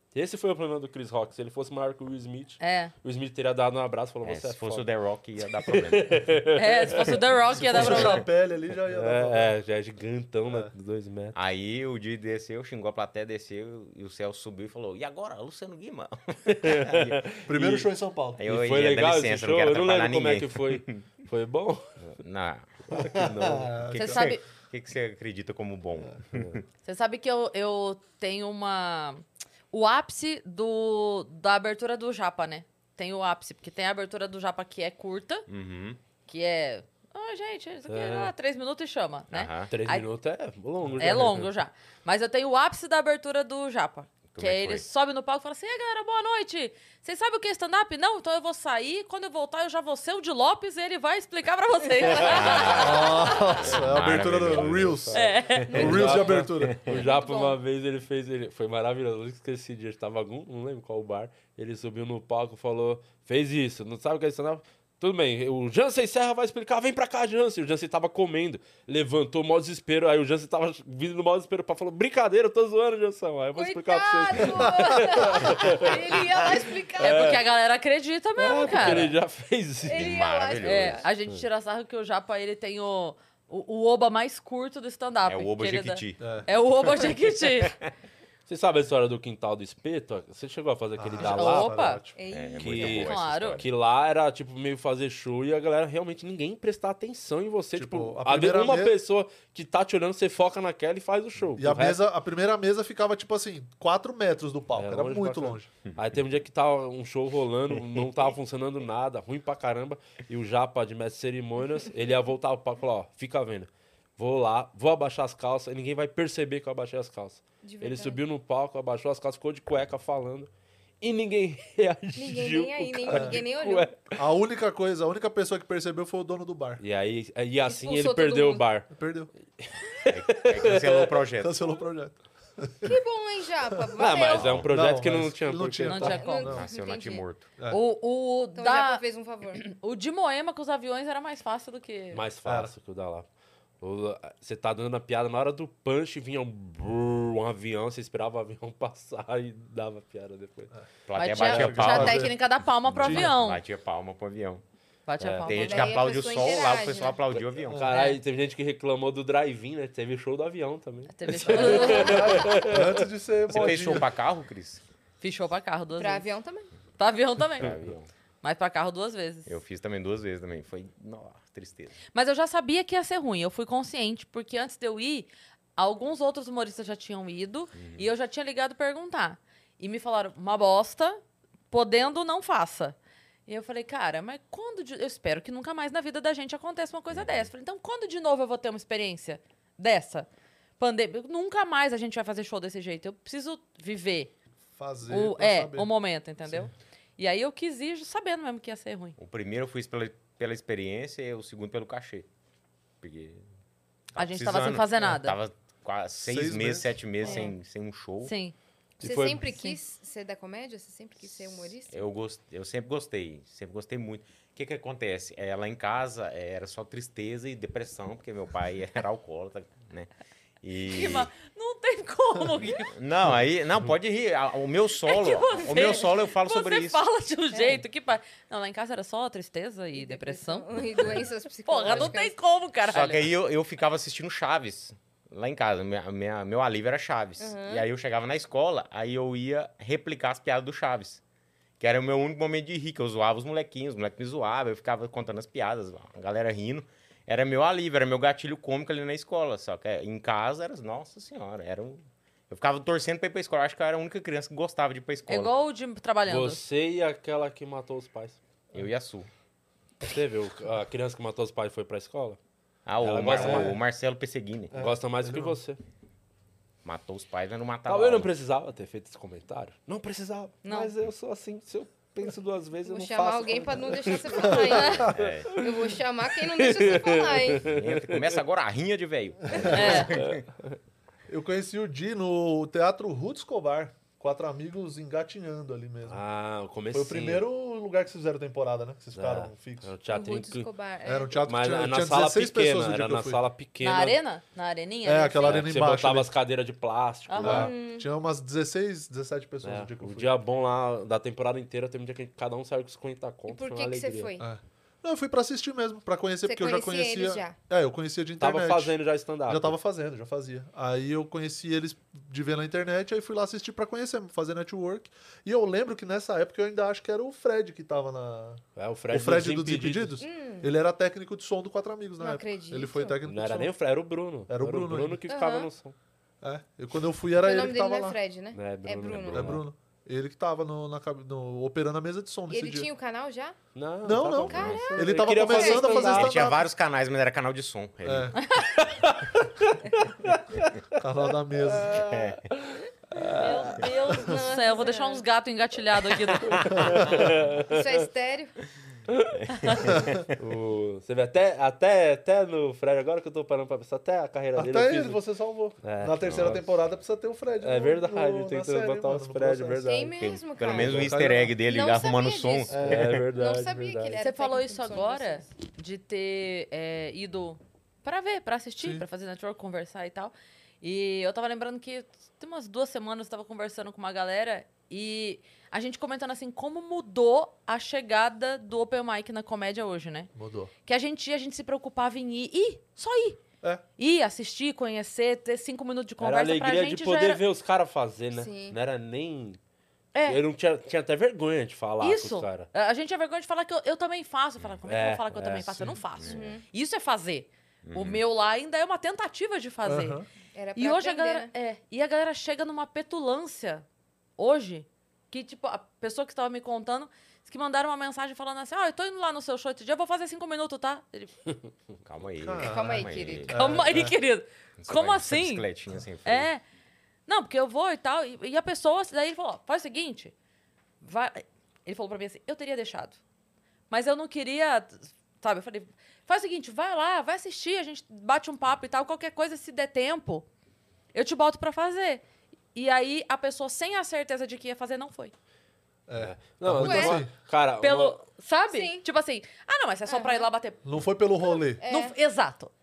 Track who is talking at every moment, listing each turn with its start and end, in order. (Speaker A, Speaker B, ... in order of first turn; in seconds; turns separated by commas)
Speaker A: 0.1-4.9, Speaker B: 2.6-2.9, Speaker C: 4.2-6.4, Speaker A: 5.5-7.2, Speaker B: 6.5-8.2, Speaker D: 7.5-9.5, Speaker C: 7.7-8.2, Speaker A: 8.9-11.3, Speaker C: 11.3-17.2, Speaker A: 16.5-17.9, Speaker D: 17.4-18.4, Speaker C: 18.4-21.0, Speaker A: 18.4-22.1, Speaker C: 22.1-23.2, Speaker A: 22.9-23.7, Speaker D: 22.9-24.3, Speaker C: 23.9-26.6, Speaker B: 24.0-24.4, Speaker B: 26.8-35.5, Speaker C: 35.5-36.0, Speaker B: 36.3-40.1, Speaker A: 37.9-38.3, Speaker C: 39.3-39.7, Speaker A: 39.7-41.5, Speaker B: 41.0-53.6, Speaker C: 44.3-44.9, Speaker C: 52.2-55.0, Speaker D: 52.7-56.8, Speaker A: 53.7-76.3, Speaker B: 55.1-55.7, Speaker C: 55.8-57.0, Speaker B: 57.0-57.5, Speaker E: 73.5-77.2, Speaker A: 77.0-77.4, Speaker B: 77.0-79.1, Speaker A: 78.4-80.2, Speaker E: 79.8-81.0, Speaker C: 79.9-81.0, Speaker B: 80.6-87.8, Speaker C: 85.2-86.3, Speaker D: 86.2-86.5, Speaker A: 88.5-91.8, Speaker D: 91.0-92.1, Speaker B: 91.2-92.0, Speaker E: 92.1-93.0, Speaker C: 92.3-93.7, Speaker A: 92.6-102.0, Speaker B: 92.9-93.6, Speaker D: 97.7-99.0, Speaker D: 101.5-105.7, Speaker A: 104.7-120.5, Speaker E: 117.6-118.2, Speaker A: 121.0-124.2, Speaker E: 122.1-123.9, Speaker D: 123.1-123.4, Speaker D: 124.2-126.8, Speaker A: 126.8-128.9, Speaker E: 127.7-128.6, Speaker D: 128.9-129.3, Speaker A: 129.6-131.1, Speaker C: 130.1-131.6, Speaker D: 131.4-132.9, Speaker E: 132.8-134.6, Speaker A: 134.0-136.2, Speaker C: 134.3-134.7, Speaker D: 134.7-136.7, Speaker B: 135.9-136.5, Speaker E: 136.0-137.2, Speaker C: 136.5-137.5, Speaker B: 137.7-142.2, Speaker E: 138.5-139.6, Speaker A: 142.1-143.2, Speaker D: 142.4-142.7, Speaker A: 143.8-150.7, Speaker C: 151.1-152.3, Speaker B: 151.1-153.6, Speaker D: 151.4-152.3, Speaker C: 152.9-154.6, Speaker D: 153.0-153.3, Speaker B: 155.1-156.0, Speaker C: 155.3-157.8, Speaker E: 155.5-157.2, Speaker A: 157.3-163.0, Speaker B: 157.9-158.2, Speaker B: 161.1-162.4, Speaker D: 161.6-164.1, Speaker E: 161.7-162.2, Speaker C: 163.5-164.8, Speaker B: 165.2-166.3, Speaker E: 166.0-166.7, Speaker B: 167.0-167.7, Speaker C: 167.6-168.1, Speaker B: 168.4-169.5, Speaker C: 169.4-171.9, Speaker B: 172.1-182.9, Speaker C: 177.7-178.1, Speaker B: 183.5-190.3, Speaker C: 187.1-187.5, Speaker B: 190.8-194.3, Speaker D: 194.8-195.9, Speaker B: 195.1-199.2, Speaker D: 196.4-196.7, Speaker C: 199.2-202.3, Speaker C: 203.0-203.4, Speaker C: 204.1-208.3, Speaker B: 204.2-205.4, Speaker D: 206.2-207.3, Speaker E: 207.2-207.5, Speaker B: 208.2-208.5, Speaker A: 209.0-209.5, Speaker E: 209.0-212.1, Speaker C: 211.9-221.3, Speaker B: 220.9-222.9, Speaker C: 222.9-227.0, Speaker B: 225.0-230.7, Speaker E: 227.5-227.8, Speaker E: 229.9-232.3, Speaker B: 231.7-233.3, Speaker C: 232.8-241.2, Speaker E: 237.4-237.8, Speaker C: 241.8-255.5, Speaker B: 255.3-256.6, Speaker A: 256.2-258.4, Speaker C: 258.7-259.3, Speaker A: 260.0-262.4, Speaker C: 262.9-264.8, Speaker A: 263.0-263.8, Speaker D: 263.3-263.8, Speaker D: 264.7-265.6, Speaker A: 264.8-265.8, Speaker C: 266.8-268.3, Speaker A: 267.9-278.4, Speaker B: 270.6-270.9, Speaker E: 272.9-277.7, Speaker D: 274.7-275.1, Speaker C: 275.1-275.5, Speaker C: 277.7-280.4, Speaker B: 279.7-280.1, Speaker D: 281.3-286.2, Speaker A: 286.1-287.4, Speaker D: 286.9-289.9, Speaker A: 289.1-290.7, Speaker E: 290.1-291.5, Speaker D: 291.0-293.4, Speaker A: 291.4-294.2, Speaker B: 293.8-295.6, Speaker D: 295.0-296.3, Speaker A: 295.4-297.7, Speaker B: 297.3-297.6, Speaker D: 297.4-300.4, Speaker E: 297.5-298.1, Speaker A: 299.6-304.4, Speaker E: 303.5-304.4, Speaker D: 304.4-323.7, Speaker E: 306.4-307.6, Speaker A: 308.4-309.8, Speaker A: 318.8-320.2, Speaker E: 320.2-320.7, Speaker E: 322.2-323.2, Speaker A: 323.2-325.9, Speaker D: 324.5-325.2, Speaker E: 325.3-325.7, Speaker D: 326.4-328.2, Speaker E: 327.4-329.6, Speaker A: 328.5-329.6, Speaker D: 329.3-332.9, Speaker E: 332.5-333.6, Speaker A: 333.8-336.4, Speaker D: 334.0-336.7, Speaker E: 334.5-334.9, Speaker C: 334.5-334.8, Speaker E: 335.4-336.1, Speaker C: 336.1-338.4, Speaker D: 338.0-338.4, Speaker A: 338.7-340.7, Speaker D: 341.0-341.9, Speaker C: 341.9-342.4, Speaker A: 343.1-343.5, Speaker B: 343.4-346.5, Speaker E: 344.2-345.2, Speaker A: 346.5-348.0, Speaker D: 346.9-347.3, Speaker E: 347.6-348.5, Speaker A: 349.1-349.4, Speaker C: 349.5-350.4, Speaker A: 350.4-355.2, Speaker D: 354.5-359.9, Speaker A: 355.8-356.7, Speaker C: 356.2-356.5, Speaker A: 357.6-360.9, Speaker E: 359.8-365.5, Speaker C: 360.2-363.1, Speaker D: 360.8-361.6, Speaker D: 362.7-363.2, Speaker A: 362.8-364.2, Speaker B: 364.2-380.3, Speaker D: 368.8-369.1, Speaker D: 380.4-380.7, Speaker B: 380.9-383.4, Speaker B: 384.0-387.4, Speaker A: 386.2-389.6, Speaker E: 388.3-388.8, Speaker B: 390.1-390.4, Speaker A: 390.3-392.7, Speaker B: 392.0-400.2, Speaker A: 394.9-395.9, Speaker C: 396.2-396.5, Speaker E: 396.3-396.6, Speaker C: 397.9-398.2, Speaker D: 399.9-400.2, Speaker E: 400.5-401.5, Speaker B: 400.8-403.9, Speaker B: 404.4-411.3, Speaker C: 412.0-413.8, Speaker D: 412.4-414.1, Speaker E: 412.6-413.5, Speaker B: 413.5-415.6, Speaker C: 414.8-416.5, Speaker B: 416.2-416.6, Speaker B: 417.3-420.3, Speaker B: 421.0-423.2, Speaker B: 423.9-430.4, Speaker B: 431.1-432.2, Speaker B: 432.7-435.3, Speaker D: 436.1-437.3, Speaker A: 436.2-438.2, Speaker E: 436.8-437.2, Speaker B: 437.8-440.8, Speaker E: 438.7-439.0, Speaker E: 440.1-440.5, Speaker D: 440.9-441.8, Speaker E: 441.7-442.1, Speaker B: 441.9-442.7